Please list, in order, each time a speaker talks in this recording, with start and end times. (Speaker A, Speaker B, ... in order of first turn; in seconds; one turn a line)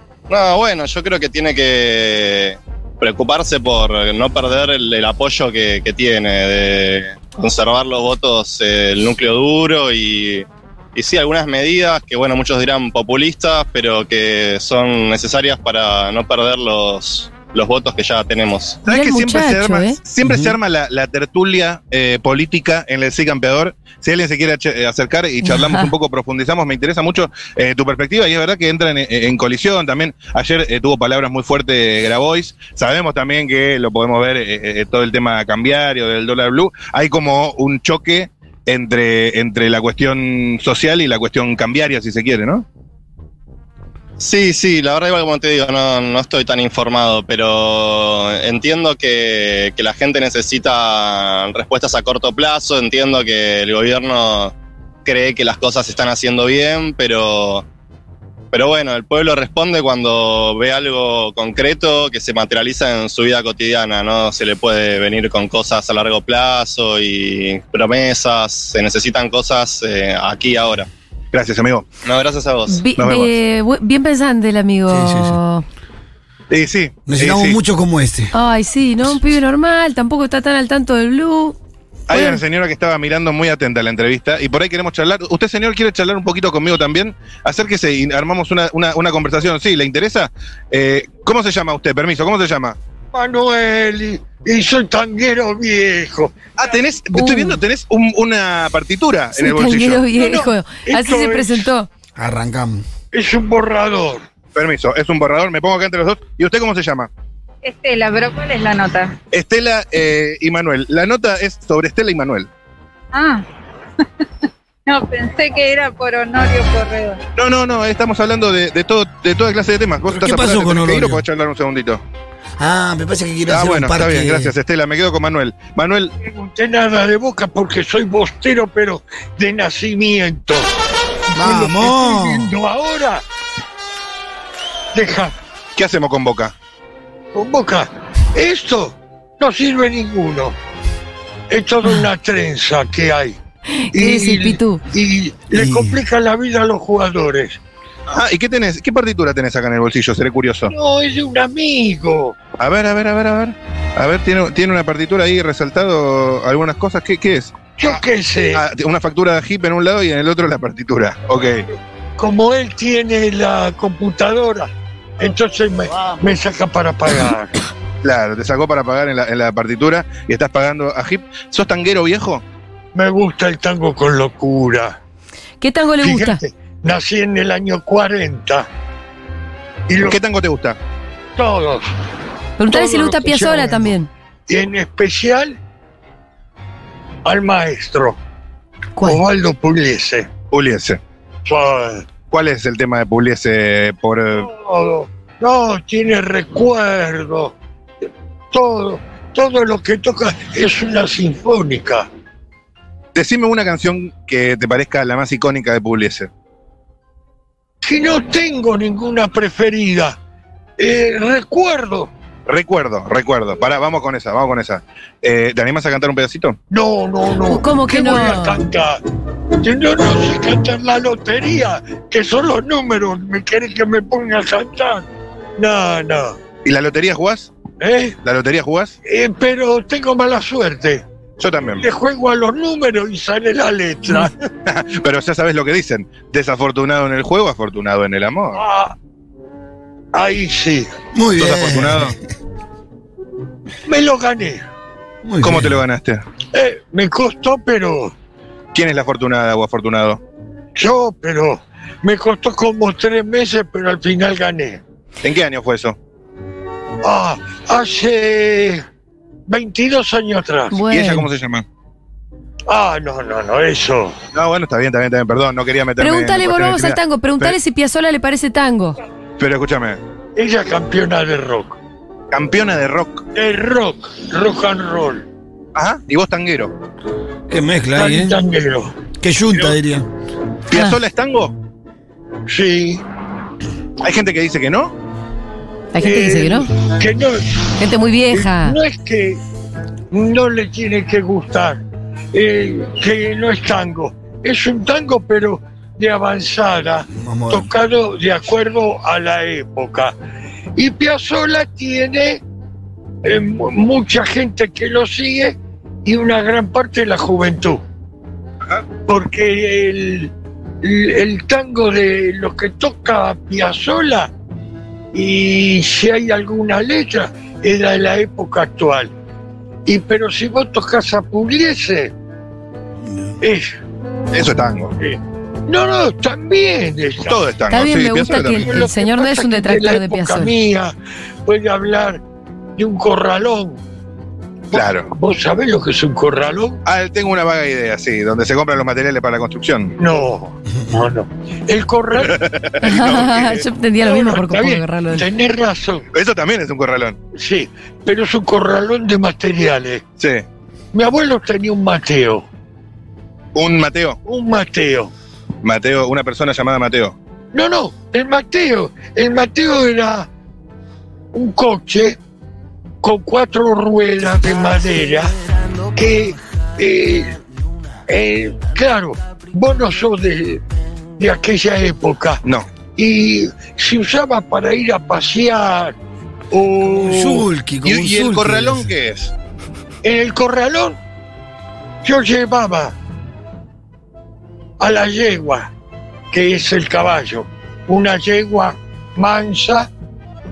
Speaker A: 0.3-18.8
Speaker B: 18.9-42.7
Speaker C: 18.9-20.0
Speaker D: 20.2-20.6
Speaker C: 25.4-25.9
Speaker A: 44.2-54.5
Speaker A: 55.0-57.7
Speaker A: 58.5-70.9
Speaker B: 71.3-71.8
Speaker A: 72.0-72.8
Speaker C: 72.7-75.6
Speaker B: 73.0-73.3
Speaker D: 74.9-75.4
Speaker B: 76.5-77.6
Speaker D: 77.1-78.3
Speaker C: 78.3-81.6
Speaker B: 82.1-92.8
Speaker C: 82.1-82.4
Speaker E: 93.1-96.4
Speaker B: 96.6-100.0
Speaker C: 97.1-97.6
Speaker C: 99.3-101.9
Speaker E: 100.1-101.7
Speaker D: 102.2-102.8
Speaker E: 103.1-104.2
Speaker B: 104.5-107.1
Speaker F: 107.6-109.2
Speaker B: 109.3-112.5
Speaker F: 113.1-113.4
Speaker F: 114.9-117.2
Speaker B: 117.4-122.0
Speaker D: 120.1-121.2
Speaker D: 122.6-124.5
Speaker B: 123.5-126.1
Speaker E: 126.2-130.7
Speaker E: 131.3-133.2
Speaker D: 131.3-132.5
Speaker E: 134.9-135.3
Speaker B: 135.8-136.5
Speaker E: 137.3-140.6
Speaker E: 141.5-143.4
Speaker C: 143.7-144.8
Speaker E: 143.9-147.6
Speaker D: 145.6-146.0
Speaker B: 148.1-150.7
Speaker E: 150.7-152.4
Speaker B: 152.6-157.5
Speaker E: 157.8-158.7
Speaker B: 158.5-161.7
Speaker E: 162.2-167.6
Speaker B: 168.0-172.4
Speaker E: 172.9-175.0
Speaker C: 175.6-176.4
Speaker E: 176.0-178.7
Speaker E: 179.9-180.2
Speaker B: 180.0-180.8
Speaker E: 181.4-181.9
Speaker C: 182.6-184.1
Speaker E: 182.7-183.9
Speaker E: 184.5-185.6
Speaker E: 187.2-188.2
Speaker C: 189.0-189.2
Speaker E: 189.0-190.3
Speaker B: 190.5-191.0
Speaker E: 191.4-192.1
Speaker B: 192.3-194.5
Speaker E: 194.3-197.6
Speaker E: 198.5-202.1
Speaker B: 203.2-206.3
Speaker E: 207.8-210.2
Speaker E: 210.8-212.1
Speaker B: 212.5-216.6
Speaker E: 216.7-219.0
Speaker C: 217.5-218.6
Speaker E: 219.6-226.4
Speaker B: 226.7-227.5
Speaker E: 227.8-228.2
Speaker B: 228.2-228.9
Speaker E: 229.1-231.0
Speaker B: 231.4-231.8
Speaker E: 231.8-234.3
Speaker B: 234.7-238.6
Speaker E: 238.5-238.9
Speaker E: 240.1-240.9
Speaker D: 241.1-242.2
Speaker B: 241.4-242.2
Speaker E: 243.9-244.7
Speaker D: 245.2-245.8
Speaker B: 245.4-246.2
Speaker E: 246.5-248.1
Speaker B: 248.7-250.2
Speaker E: 250.8-254.8
Speaker B: 255.2-256.0
Speaker E: 257.0-258.8
Speaker E: 259.5-260.8
Speaker C: 260.7-261.3
Speaker B: 260.9-261.6
Speaker E: 262.7-264.2
Speaker B: 264.3-267.6
Speaker C: 266.0-269.0
Speaker B: 269.4-270.0
Speaker E: 270.4-271.8
Speaker B: 272.3-273.2
Speaker E: 273.4-275.3
Speaker B: 275.8-276.7
Speaker D: 277.5-278.4
Speaker E: 278.0-278.9
Speaker D: 279.2-280.1
Speaker B: 280.7-281.6
Speaker E: 282.5-283.0
Speaker B: 284.0-284.9
Speaker C: 285.9-286.7
Speaker E: 286.0-287.6
Speaker C: 287.8-288.8
Speaker E: 288.3-289.4
Speaker E: 290.1-300.1
Speaker D: 297.1-297.7
Speaker E: 300.8-302.4
Speaker E: 303.2-307.8
Speaker E: 309.0-314.3
Speaker E: 315.1-319.1
Speaker E: 319.9-322.1
Speaker E: 323.4-323.8
Speaker B: 324.3-325.0
Speaker E: 325.0-327.4
Speaker B: 327.3-328.7
Speaker C: 327.7-330.5
Speaker E: 328.6-330.9
Speaker E: 331.5-332.2
Speaker E: 332.8-333.8
Speaker E: 334.7-336.8
Speaker B: 334.7-335.1
Speaker B: 336.9-339.9
Speaker E: 340.0-342.4
Speaker B: 342.2-343.7
Speaker C: 342.8-345.2
Speaker E: 344.0-346.1
Speaker B: 346.1-347.2
Speaker E: 347.4-350.0
Speaker B: 350.2-350.4
Speaker E: 350.9-352.4
Speaker B: 353.5-354.2
Speaker E: 354.2-355.1
Speaker B: 355.6-357.2
Speaker E: 357.5-360.3
Speaker E: 361.3-362.2
Speaker E: 363.0-365.3
Speaker E: 366.0-367.4
Speaker E: 368.1-370.6
Speaker E: 371.2-372.4
Speaker E: 373.0-375.9
Speaker E: 376.5-377.5
Speaker D: 376.9-378.9
Speaker B: 377.8-379.3
Speaker E: 380.0-381.0
Speaker E: 382.0-383.0
Speaker E: 384.8-385.7
Speaker E: 386.3-389.9